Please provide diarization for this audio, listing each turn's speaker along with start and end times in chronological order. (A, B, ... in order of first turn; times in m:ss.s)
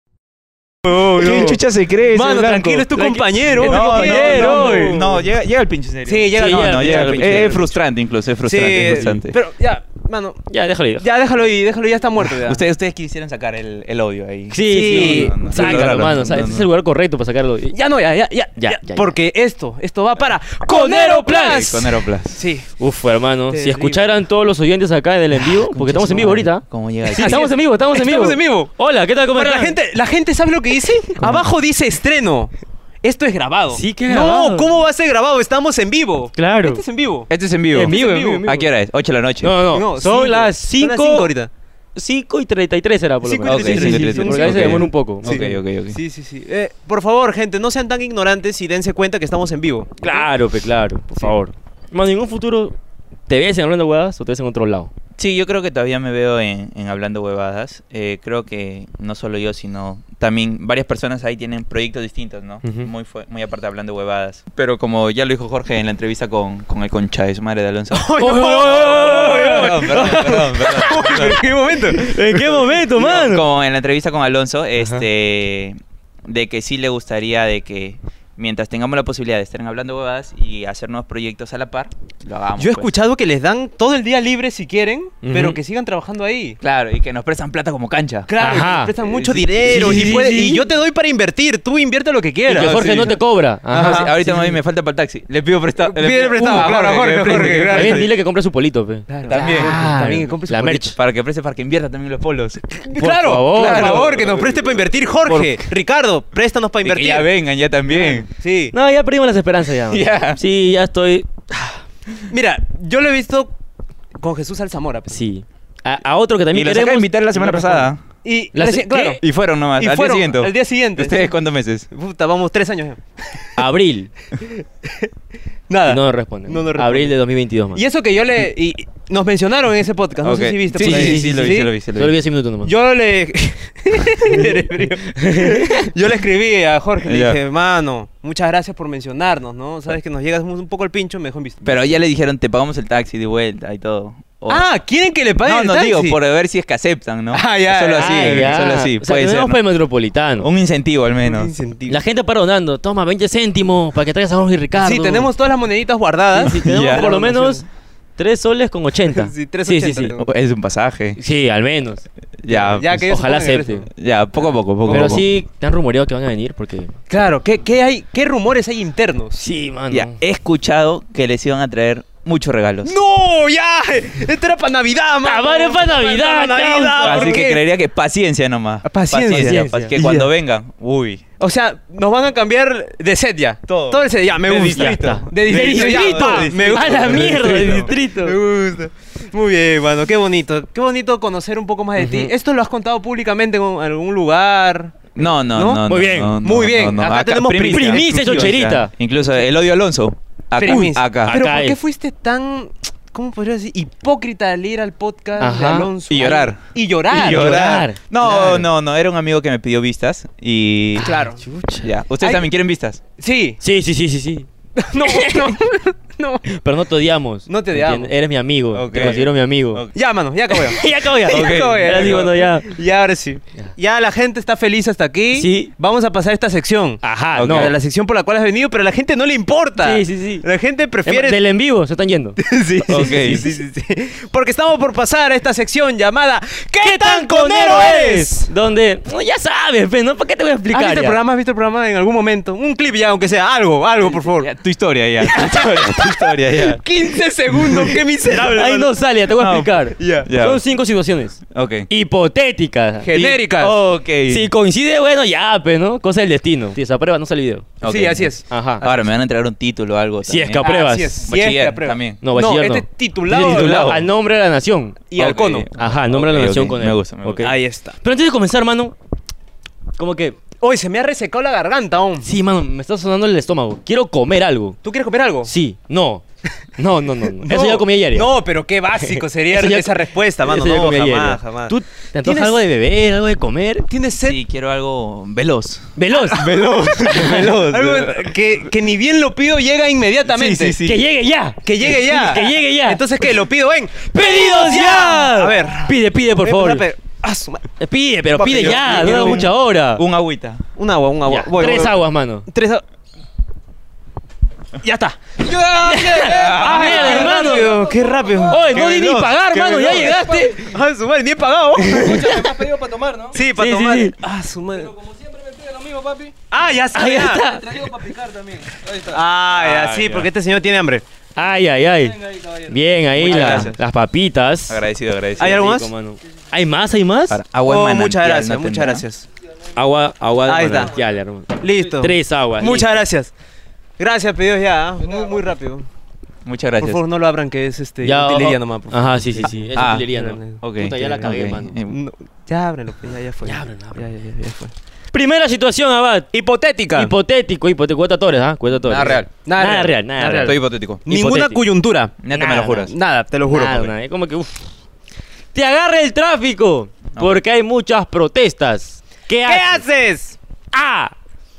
0:00.8-0:05.2 A
0:00.9-0:02.9 B
0:02.9-0:05.1 C
0:03.6-0:09.4 B
0:06.0-0:07.7 A
0:06.3-0:07.7 C
0:08.4-0:10.4 A
0:10.5-0:11.1 C
0:11.0-0:12.6 A
0:12.3-0:16.7 B
0:14.5-0:17.8 C
0:14.7-0:16.0 A
0:17.7-0:22.7 A
0:18.6-0:19.1 C
0:20.6-0:21.9 C
0:21.3-0:22.4 B
0:22.8-0:29.8 C
0:23.5-0:24.0 A
0:25.6-0:27.5 B
0:27.2-0:28.7 A
0:29.3-0:32.5 A
0:33.0-0:37.3 A
0:33.7-0:34.7 C
0:36.4-0:36.8 C
0:37.3-0:39.5 B
0:37.7-0:38.7 C
0:37.9-0:38.5 A
0:39.4-0:41.3 C
0:39.7-0:41.5 A
0:42.0-0:45.5 C
0:43.2-0:50.3 A
0:43.4-0:46.0 B
0:50.0-0:52.8 C
0:53.3-0:54.9 C
0:55.2-1:08.1 B
1:02.6-1:02.9 C
1:07.9-1:13.2 A
1:08.2-1:13.4 C
1:08.6-1:11.4 B
1:13.0-1:22.9 B
1:22.6-1:26.6 A
1:25.2-1:25.6 C
1:26.6-1:28.3 B
1:28.3-1:33.2 A
1:28.4-1:29.0 C
1:29.0-1:30.2 B
1:29.6-1:30.6 C
1:32.5-1:33.2 B
1:32.5-1:34.5 C
1:33.7-1:34.2 A
1:33.7-1:38.1 B
1:35.8-1:38.1 A
1:36.4-1:36.7 C
1:37.6-1:41.0 C
1:39.1-1:41.0 A
1:39.3-1:39.8 B
1:41.0-1:42.8 B
1:42.8-1:47.3 A
1:43.0-1:44.2 C
1:43.5-1:44.7 B
1:46.8-1:48.3 B
1:47.9-1:48.7 A
1:48.7-1:51.8 C
1:49.9-1:50.4 B
1:52.3-1:53.5 A
1:54.2-1:55.2 A
1:55.1-1:57.8 C
1:56.5-1:58.0 B
1:58.2-1:59.2 A
1:58.5-1:59.2 C
1:59.2-2:01.9 B
1:59.8-2:01.3 A
2:01.9-2:03.6 A
2:03.6-2:04.1 C
2:04.4-2:05.1 A
2:05.7-2:07.1 A
2:05.8-2:07.8 C
2:07.7-2:11.7 A
2:10.2-2:12.2 B
2:10.7-2:12.7 C
2:12.6-2:21.8 A
2:15.1-2:15.9 C
2:17.0-2:17.4 B
2:21.6-2:24.6 B
2:24.5-2:26.2 A
2:25.4-2:29.6 B
2:27.3-2:28.6 A
2:28.0-2:30.5 C
2:30.4-2:31.5 B
2:31.2-2:32.0 A
2:31.9-2:35.3 C
2:34.8-2:37.6 A
2:36.4-2:37.6 C
2:36.4-2:37.1 B
2:38.2-2:40.2 C
2:39.1-2:40.3 A
2:40.2-2:41.2 B
2:41.2-2:42.1 C
2:42.4-2:43.0 B
2:42.5-2:43.9 A
2:42.8-2:43.9 C
2:44.0-2:45.2 B
2:44.9-2:45.2 A
2:44.9-2:46.9 C
2:47.1-2:49.4 A
2:49.4-2:50.2 C
2:49.9-2:52.9 B
2:52.8-2:57.6 A
2:55.2-2:57.5 C
2:57.0-3:01.2 B
2:58.8-3:00.3 A
2:59.3-2:59.9 C
3:01.4-3:15.8 A
3:03.7-3:07.9 B
3:04.6-3:08.4 C
3:12.0-3:12.3 C
3:15.1-3:21.4 B
3:15.9-3:16.4 C
3:16.4-3:18.5 A
3:17.7-3:18.9 C
3:20.6-3:28.6 A
3:20.6-3:21.8 C
3:25.4-3:25.9 C
3:26.1-3:31.1 B
3:27.1-3:28.0 C
3:31.0-3:31.4 A
3:31.0-3:31.9 C
3:31.8-3:33.0 B
3:32.2-3:32.5 A
3:33.2-3:33.6 A
3:33.6-3:35.6 C
3:34.8-3:36.6 A
3:36.5-3:39.8 C
3:37.5-3:38.1 A
3:38.7-3:39.9 B
3:39.9-3:51.4 A
3:40.5-3:42.7 C
3:41.3-3:42.3 B
3:45.3-3:45.7 C
3:47.0-3:47.7 C
3:47.4-3:47.7 B
3:49.8-3:50.5 C
3:51.0-3:52.4 C
3:52.4-3:58.5 A
3:52.9-3:53.5 B
3:56.8-4:01.2 C
4:00.7-4:04.5 A
4:04.1-4:06.8 B
4:05.2-4:08.9 A
4:07.6-4:07.9 B
4:08.4-4:13.1 C
4:09.4-4:10.6 B
4:10.0-4:10.3 A
4:11.5-4:11.9 B
4:13.0-4:13.8 A
4:13.1-4:14.5 B
4:14.3-4:17.7 C
4:17.8-4:20.7 B
4:17.8-4:19.0 A
4:18.5-4:18.8 C
4:20.2-4:21.2 C
4:20.6-4:24.0 A
4:21.2-4:22.2 B
4:22.2-4:25.1 C
4:23.3-4:24.1 B
4:25.1-4:25.7 A
4:25.2-4:27.5 B
4:25.8-4:28.9 C
4:27.4-4:28.0 A
4:30.0-4:30.4 C
4:30.6-4:32.3 A
4:32.2-4:34.8 C
4:34.8-4:35.5 A
4:35.4-4:36.2 C
4:36.8-4:38.3 C
4:37.4-4:42.6 A
4:39.0-4:43.9 C
4:43.9-4:44.4 A
4:44.2-4:48.3 B
4:46.0-4:47.6 C
4:47.1-4:50.8 A
4:50.3-4:51.0 B
4:50.8-4:53.0 C
4:51.6-4:57.6 A
4:54.1-4:56.9 C
4:57.8-5:00.0 C
4:58.3-5:00.6 B
4:58.4-4:59.5 A
5:00.8-5:02.8 A
5:01.3-5:02.5 C
5:04.8-5:05.2 A
5:05.4-5:08.6 D
5:05.8-5:12.4 A
5:05.9-5:07.8 C
5:06.2-5:07.3 B
5:08.5-5:10.6 C
5:09.8-5:10.5 D
5:11.8-5:12.6 C
5:11.9-5:13.4 D
5:13.3-5:14.9 A
5:13.4-5:14.1 C
5:14.8-5:16.3 D
5:16.5-5:17.6 A
5:16.9-5:17.9 C
5:17.6-5:19.2 D
5:19.0-5:21.0 A
5:19.5-5:20.3 B
5:21.4-5:24.8 C
5:22.2-5:22.8 D
5:23.2-5:23.7 B
5:23.2-5:23.8 A
5:24.7-5:25.6 B
5:25.4-5:25.9 A
5:25.4-5:27.4 C
5:27.3-5:29.0 B
5:27.6-5:29.2 A
5:29.8-5:32.9 C
5:30.4-5:30.9 A
5:31.6-5:33.3 A
5:34.0-5:35.9 A
5:36.4-5:37.0 B
5:36.8-5:41.3 A
5:38.0-5:41.8 C
5:39.7-5:40.1 B
5:40.6-5:42.0 B
5:41.9-5:44.7 A
5:43.4-5:44.0 C
5:45.1-5:46.3 C
5:46.3-5:47.1 A
5:46.9-5:51.6 C
5:48.8-5:49.3 B
5:49.4-5:53.9 A
5:50.4-5:51.0 B
5:52.2-5:52.9 B
5:52.3-5:52.9 C
5:53.4-5:54.7 C
5:55.5-5:59.8 C
5:57.1-5:57.4 B
5:59.4-6:00.4 A
6:00.7-6:01.1 C